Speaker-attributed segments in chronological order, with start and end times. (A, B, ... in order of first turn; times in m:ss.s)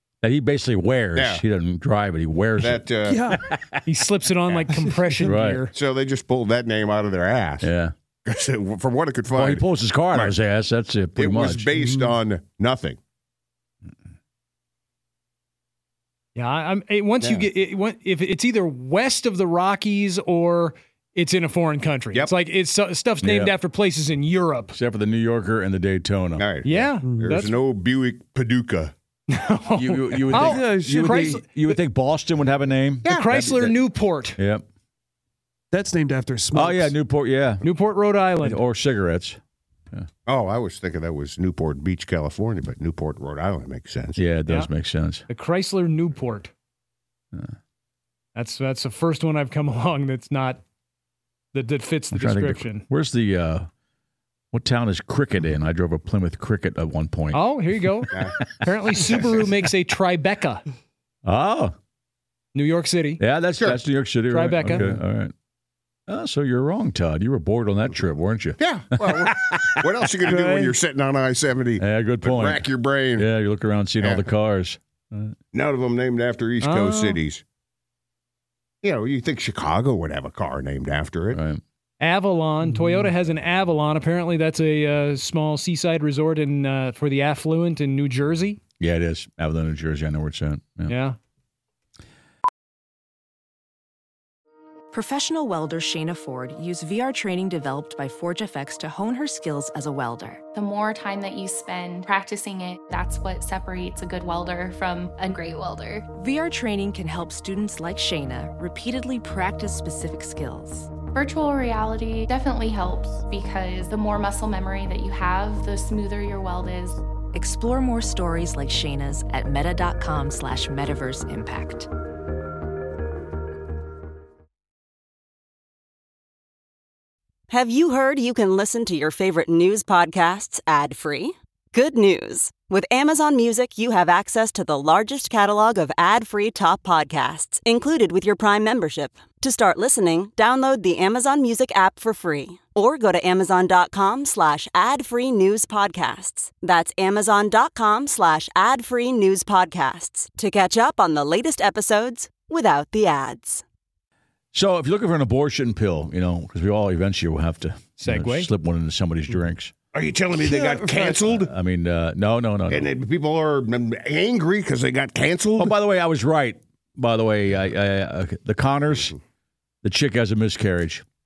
0:00.2-0:02.9 A
0:01.2-0:01.4 B
0:02.6-0:03.2 B
0:03.0-0:03.4 C
0:03.4-0:03.8 A
0:03.9-0:05.7 D
0:05.3-0:05.6 A
0:05.7-0:07.7 B
0:07.6-0:07.9 A
0:08.2-0:10.4 B
0:09.3-0:11.7 A
0:11.2-0:13.0 B
0:11.8-0:12.2 C
0:16.4-0:24.8 D
0:17.2-0:17.5 B
0:23.2-0:23.6 A
0:24.7-0:26.5 A
0:26.4-0:28.9 B
0:26.6-0:27.5 D
0:27.0-0:27.4 C
0:29.3-0:31.8 D
0:29.7-0:33.8 A
0:30.3-0:31.4 C
0:33.1-0:34.4 D
0:34.4-0:34.6 A
0:35.7-0:37.0 C
0:36.5-0:37.6 A
0:37.6-0:38.6 D
0:38.4-0:39.4 A
0:40.3-0:44.2 B
0:44.2-0:45.2 A
0:45.3-0:46.5 D
0:48.4-0:50.6 D
0:51.5-0:52.8 D
0:52.1-0:53.7 A
0:54.5-0:57.4 A
0:57.3-1:00.6 D
0:58.1-0:58.4 B
1:01.2-1:01.7 A
1:02.6-1:03.2 D
1:03.2-1:05.3 A
1:04.3-1:04.9 D
1:04.7-1:05.0 C
1:06.1-1:09.8 A
1:08.6-1:13.3 B
1:10.2-1:10.8 C
1:11.8-1:15.4 A
1:14.0-1:14.3 B
1:15.5-1:17.4 B
1:16.6-1:17.2 D
1:18.8-1:21.4 B
1:21.3-1:21.6 A
1:22.0-1:28.6 D
1:28.8-1:30.9 A
1:30.9-1:31.2 D
1:34.9-1:40.4 E
1:40.5-1:46.1 F
1:46.1-1:50.9 E
1:51.1-1:57.0 F
1:57.3-2:01.9 E
2:07.5-2:33.6 G
2:34.5-2:39.7 A
2:38.0-2:38.5 D
2:39.9-2:41.5 B
2:40.4-2:40.8 C
2:40.9-2:42.9 A
2:42.7-2:45.8 B
2:45.6-2:49.1 A
2:49.8-2:51.0 A